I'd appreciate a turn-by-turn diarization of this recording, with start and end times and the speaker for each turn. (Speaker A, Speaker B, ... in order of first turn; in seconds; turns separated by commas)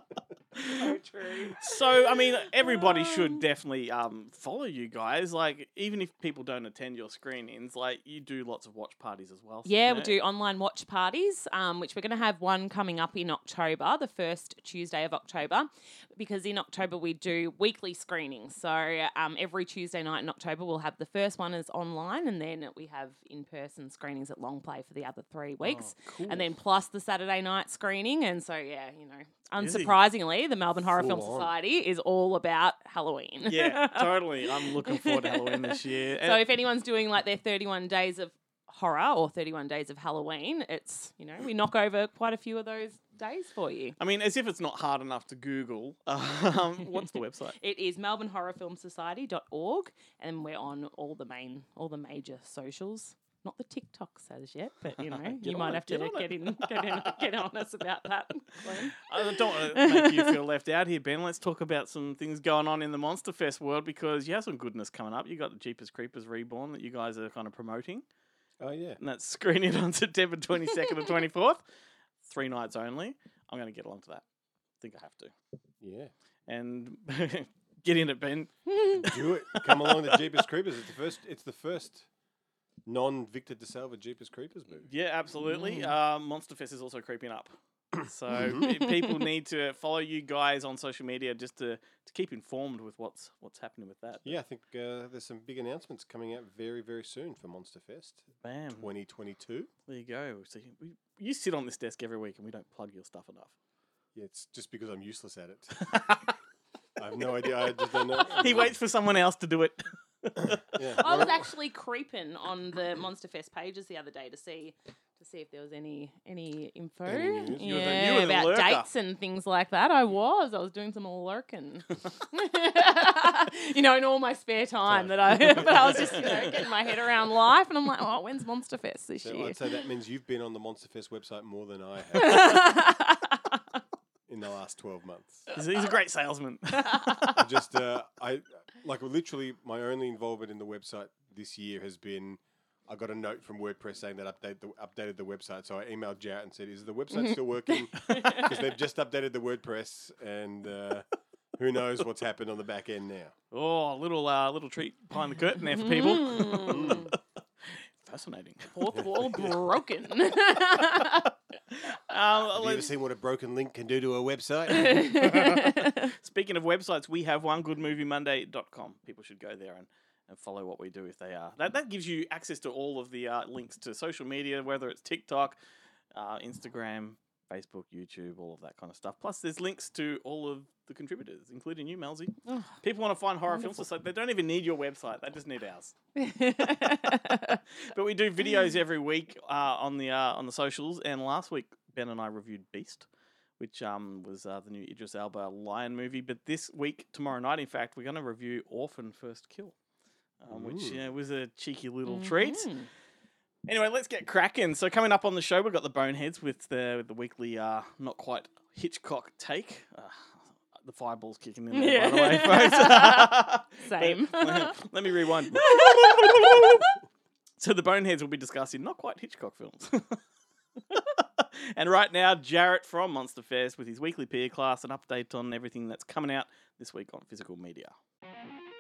Speaker A: 0.7-2.1, Speaker B: 1.6-10.2, Speaker A: 2.6-3.4, Speaker A: 9.7-44.0, Speaker B: 25.6-26.2, Speaker B: 29.6-29.9, Speaker C: 30.9-31.5, Speaker B: 33.5-36.4, Speaker B: 44.0-47.6, Speaker A: 47.6-60.3, Speaker B: 55.0-57.2, Speaker B: 58.6-68.0, Speaker C: 68.6-69.0, Speaker B: 69.0-71.6, Speaker B: 72.2-74.2, Speaker B: 74.8-75.3, Speaker C: 75.8-76.1, Speaker B: 76.5-79.1, Speaker A: 78.7-79.0, Speaker C: 79.0-82.0, Speaker B: 79.7-80.2, Speaker C: 82.8-84.9, Speaker B: 84.8-94.3, Speaker A: 85.4-85.9, Speaker C: 88.3-88.7, Speaker C: 94.2-99.7, Speaker B: 98.4-98.9, Speaker B: 99.9-103.5, Speaker C: 104.1-106.0, Speaker B: 105.9-106.2, Speaker C: 107.0-108.7, Speaker B: 107.4-107.7, Speaker B: 108.3-110.6, Speaker C: 110.7-111.5, Speaker A: 111.0-129.6, Speaker C: 117.0-118.0, Speaker B: 117.6-118.8, Speaker C: 124.9-126.2, Speaker B: 125.6-126.4, Speaker C: 129.2-132.7, Speaker A: 132.2-133.5, Speaker C: 134.3-135.5, Speaker B: 135.5-137.4, Speaker C: 137.3-153.3, Speaker A: 147.1-148.5, Speaker B: 153.5-157.1, Speaker A: 155.8-157.1, Speaker C: 156.7-157.0, Speaker B: 157.7-158.8, Speaker A: 158.8-161.3, Speaker B: 162.1-162.9, Speaker C: 162.5-165.3, Speaker A: 164.8-166.0, Speaker B: 165.5-175.6, Speaker B: 176.1-185.9, Speaker A: 182.4-182.8, Speaker A: 183.5-183.8, Speaker A: 186.2-187.6, Speaker B: 186.7-193.0, Speaker B: 193.6-199.7, Speaker B: 200.4-202.7, Speaker C: 200.5-201.0, Speaker A: 202.1-202.9, Speaker B: 203.7-216.8, Speaker A: 211.7-214.8, Speaker A: 215.5-216.9, Speaker B: 217.6-220.2, Speaker B: 220.9-227.9